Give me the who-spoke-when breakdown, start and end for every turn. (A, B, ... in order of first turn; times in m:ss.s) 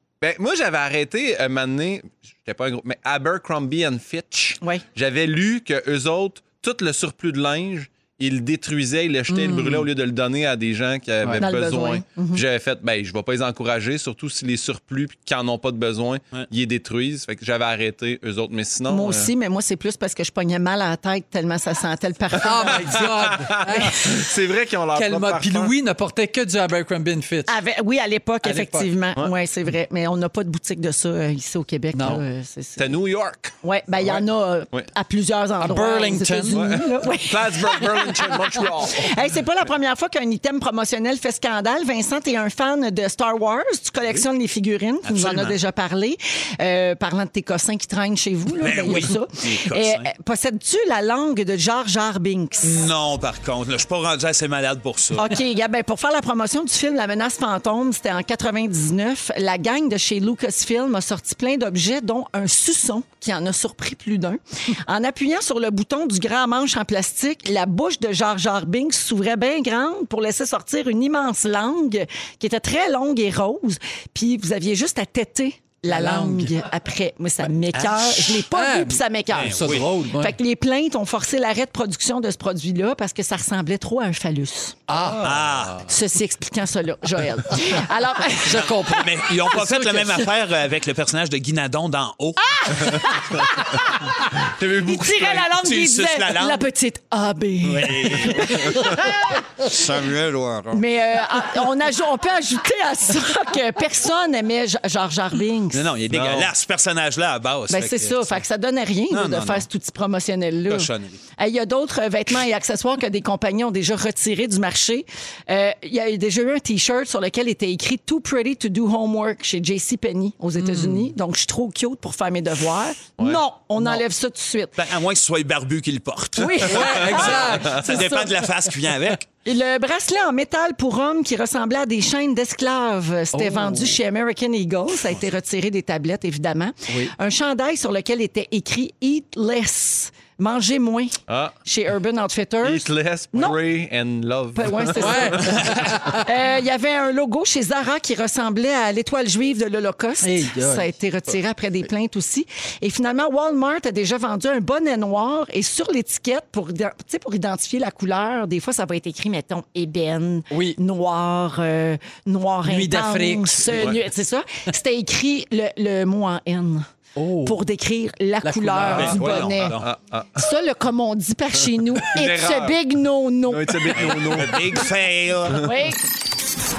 0:00.2-0:19.3 A
0:09.3-0:09.9 B
0:11.4-0:12.4 C
0:18.9-0:22.9 C
0:22.4-0:24.1 B
0:22.4-0:25.7 A
0:24.9-0:27.5 B
0:27.5-0:32.9 C
0:28.4-0:28.9 B
0:31.9-0:32.2 B
0:32.8-0:34.9 A
0:33.6-0:38.4 C
0:35.6-0:36.8 B
0:36.5-0:39.2 A
0:38.9-0:52.8 C
0:45.0-0:45.5 D
0:48.6-0:50.1 D
0:52.6-0:55.3 D
0:55.2-1:24.8 C
1:15.9-1:16.5 B
1:17.8-1:20.4 B
1:19.3-1:19.9 D
1:24.9-1:25.4 B
1:25.0-1:25.6 A
1:25.2-1:25.9 D
1:25.9-1:28.9 C
1:28.4-1:30.3 B
1:28.9-1:33.0 D
1:32.6-1:39.4 C
1:34.6-1:35.2 A
1:35.2-1:36.6 D
1:37.6-1:39.0 D
1:39.6-1:40.8 D
1:40.7-1:45.9 C
1:45.7-1:48.4 D
1:46.1-1:46.5 A
1:47.7-2:04.8 C
1:49.1-1:49.6 D
1:50.7-1:51.2 D
2:00.6-2:01.1 B
2:03.8-2:04.0 B
2:04.8-2:09.3 D
2:06.4-2:08.3 C
2:06.6-2:08.2 B
2:07.4-2:07.7 A
2:09.4-2:23.6 C
2:13.3-2:14.0 B
2:21.3-2:21.5 A
2:22.6-2:25.7 A
2:24.5-2:46.8 C
2:25.0-2:26.3 B
2:30.2-2:30.9 B
2:40.5-2:40.8 B
2:42.6-2:43.9 B
2:47.2-2:47.6 B
2:47.4-2:49.8 C
2:48.4-2:49.4 B
2:48.9-2:50.4 A
2:48.9-2:49.9 D
2:50.3-2:54.3 C
2:52.0-2:52.8 A
2:53.5-2:54.8 A
2:54.0-2:55.7 D
2:55.5-2:56.0 C